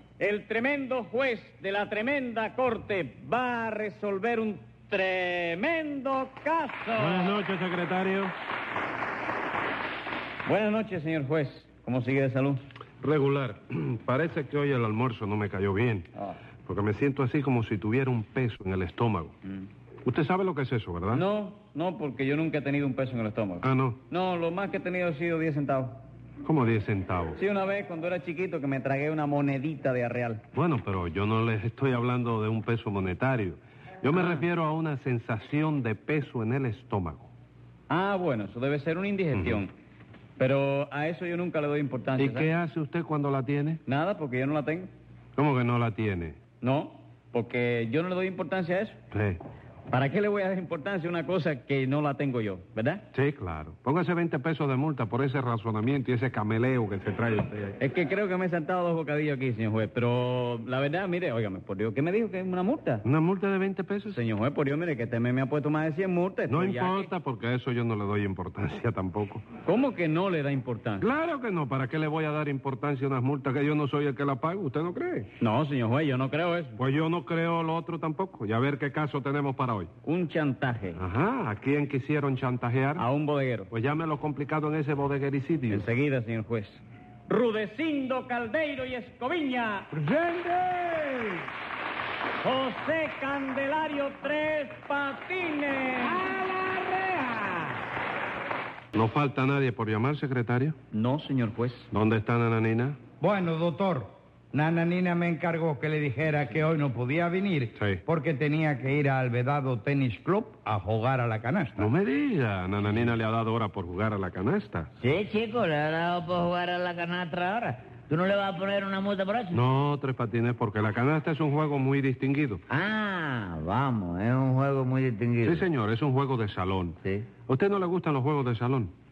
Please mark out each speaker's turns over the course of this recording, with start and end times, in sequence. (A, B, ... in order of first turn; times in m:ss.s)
0:00.2-0:07.4 A
0:07.0-0:08.3 B
0:10.5-0:12.6 A
0:13.0-0:16.1 B
0:16.7-0:19.4 B
0:20.0-0:21.3 B
0:21.1-0:26.0 A
0:23.6-0:24.0 B
0:26.4-0:27.4 B
0:27.4-0:30.4 A
0:30.5-0:37.3 B
0:37.9-0:39.7 A
0:39.3-0:39.6 B
0:40.4-0:42.5 A
0:42.2-0:43.8 B
0:43.9-0:44.9 A
0:45.4-0:46.4 B
0:46.6-0:49.0 A
0:49.1-0:49.4 B
0:49.9-0:53.0 A
0:53.1-0:57.8 B
0:57.8-1:03.0 A
1:03.0-1:04.2 B
1:04.1-1:07.1 A
1:06.5-1:09.4 B
1:09.7-1:11.0 A
1:11.0-1:15.3 B
1:15.4-1:16.8 A
1:16.8-1:19.9 B
1:20.0-1:21.0 A
1:21.0-1:23.1 B
1:23.0-1:23.7 A
1:23.7-1:25.9 B
1:25.7-1:30.0 A
1:30.0-1:31.0 B
1:32.4-1:37.5 A
1:38.9-1:40.8 B
1:40.9-1:41.9 A
1:41.9-1:43.0 B
1:43.2-1:51.9 C
1:47.8-1:48.0 B
1:51.8-1:54.9 B
1:55.0-1:59.6 D
1:59.5-2:02.6 B
2:02.7-2:05.7 D
2:05.4-2:08.9 B